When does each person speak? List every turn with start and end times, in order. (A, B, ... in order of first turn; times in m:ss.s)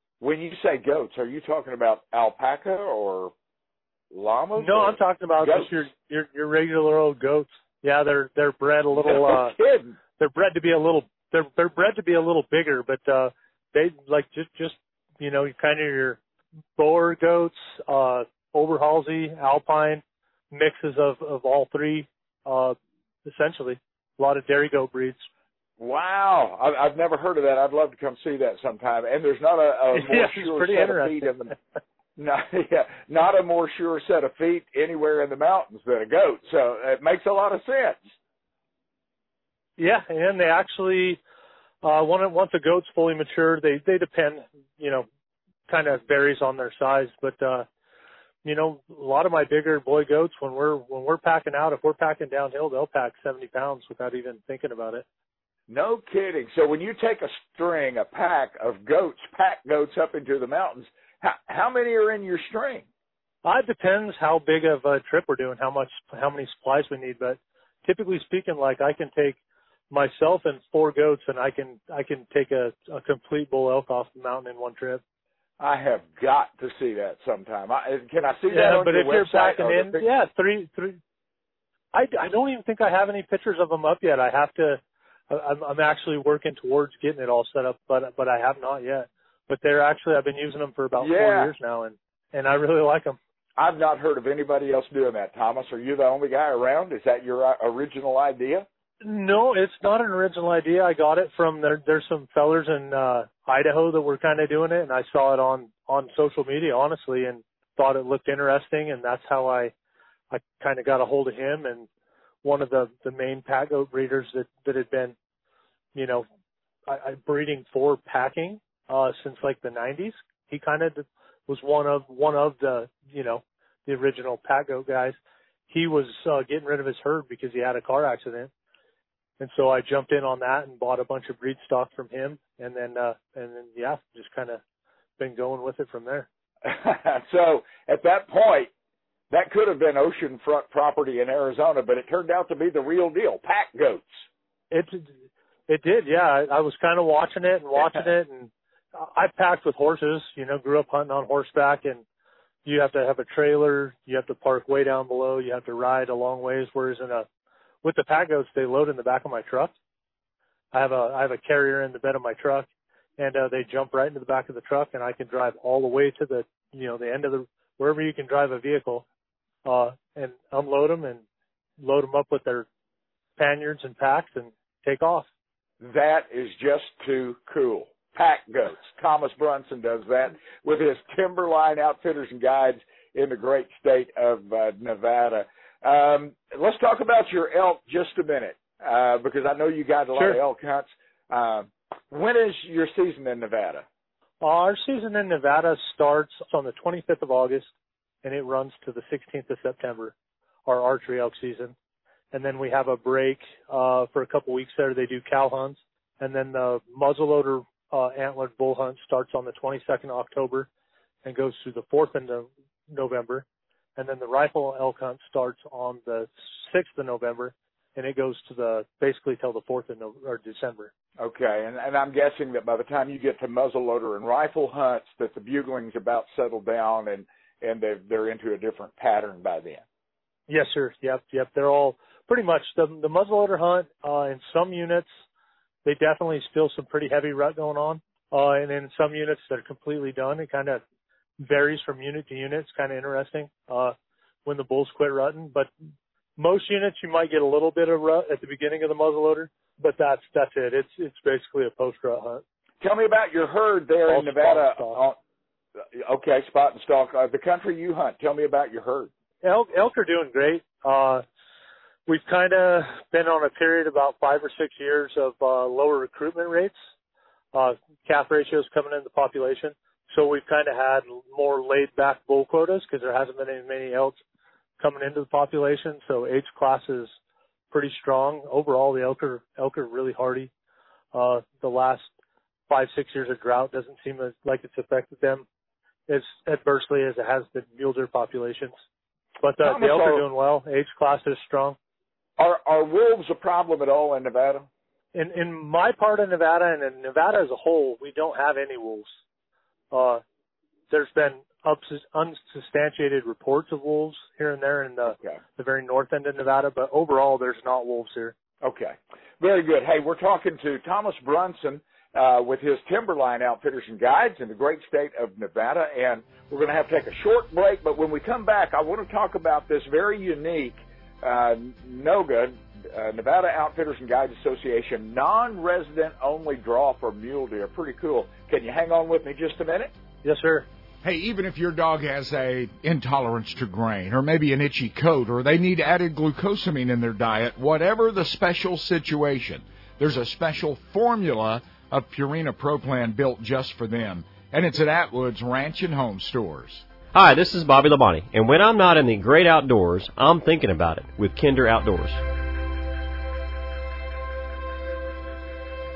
0:00.2-0:03.3 A
0:04.1-0:05.8 A
0:04.6-0:09.6 B
0:08.9-0:10.0 A
0:10.2-0:16.2 B
0:16.8-0:25.3 B
0:25.8-0:31.5 A
0:29.9-0:31.3 B
0:32.2-0:38.1 A
0:39.8-0:41.2 B
0:41.8-0:45.1 B
0:45.7-0:47.6 B
0:48.4-0:55.0 B
0:55.7-1:02.8 A
1:03.4-1:09.4 B
1:09.9-1:15.0 B
1:15.6-1:20.0 A
1:18.5-1:21.0 B
1:21.9-1:33.2 B
1:31.0-1:31.5 A
1:33.6-1:38.6 A
1:39.0-1:49.7 B
1:50.3-1:51.9 B
1:52.4-1:55.2 B
1:55.9-1:56.2 B
1:56.9-2:05.2 B
2:05.7-2:08.5 B
2:09.4-2:14.6 B
2:15.2-2:16.3 B
2:16.6-2:18.7 A
2:19.3-2:24.2 A
2:24.7-2:32.0 B
2:27.8-2:28.0 A
2:32.6-2:37.3 B
2:37.8-2:39.7 B
2:40.7-2:49.0 B
2:49.6-2:51.2 B
2:51.8-2:52.6 B
2:53.4-2:55.3 B
2:55.8-3:13.8 A
3:10.1-3:10.4 B
3:14.4-3:17.7 B
3:18.2-3:20.1 B
3:20.6-3:21.7 B
3:22.3-3:30.7 B
3:31.2-3:33.4 B
3:34.0-3:40.9 B
3:41.2-3:49.8 A
3:50.5-3:55.1 B
3:55.8-4:00.8 B
4:01.4-4:03.9 B
4:04.4-4:05.7 B
4:06.4-4:12.4 B
4:12.8-4:15.2 A
4:14.1-4:15.0 B
4:15.9-4:19.1 A
4:19.4-4:21.2 B
4:22.1-4:26.8 B
4:27.5-4:34.2 B
4:34.8-4:37.1 B
4:37.7-4:40.5 B
4:41.1-4:42.1 B
4:42.7-4:45.4 B
4:46.1-4:48.8 B
4:49.4-4:51.8 B
4:49.6-4:50.2 A
4:52.4-4:54.7 A
4:55.1-4:59.1 B
4:59.9-5:00.2 B
5:00.9-5:08.4 B
5:05.1-5:05.4 A
5:08.6-5:29.9 A
5:30.2-5:30.6 B
5:31.0-5:46.8 C
5:47.1-5:52.2 D